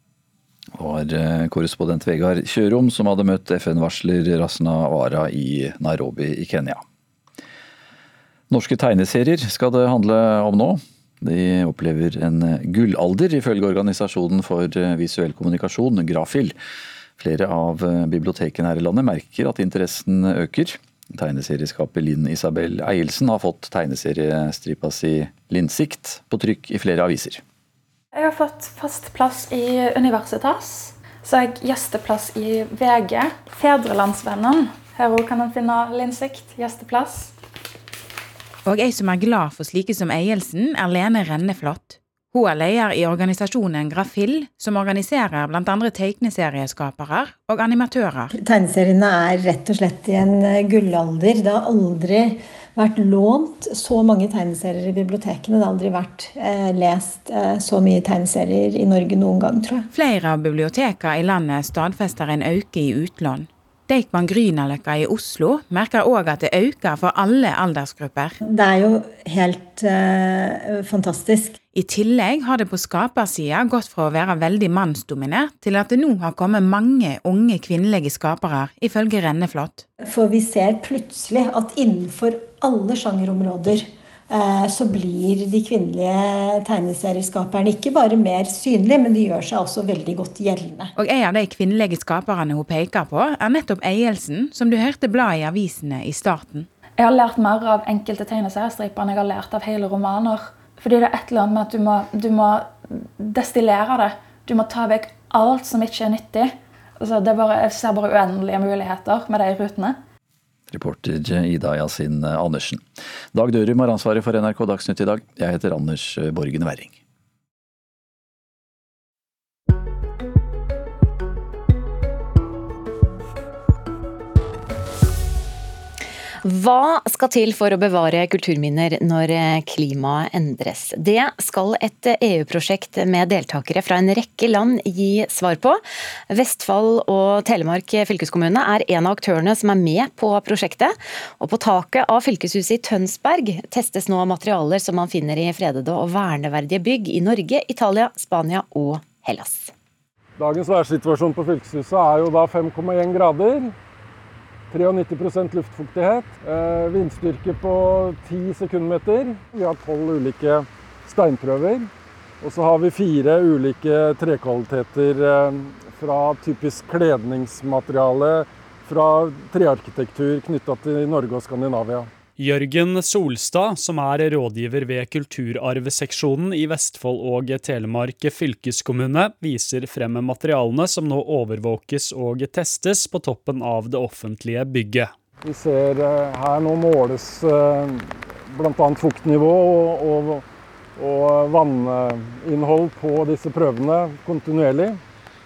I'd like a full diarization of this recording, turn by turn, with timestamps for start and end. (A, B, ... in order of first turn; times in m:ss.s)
0:00.8-0:06.8 A
0:08.5-0:16.5 A
0:17.2-0:27.4 A
0:28.1-0:37.3 B
0:38.6-0:48.3 C
0:48.3-0:59.9 D
0:59.9-1:08.4 C
1:08.4-1:11.6 D
1:11.7-1:19.8 C
1:20.0-1:30.9 D
1:31.0-1:36.7 C
1:37.0-1:50.0 B
1:50.7-1:57.0 A
2:06.4-2:15.8 E
2:16.3-2:29.7 E
2:30.4-2:33.7 F
2:34.7-2:41.9 F
2:42.4-2:52.1 F
2:52.4-3:05.1 G
3:05.4-3:10.4 F
3:11.0-3:15.0 F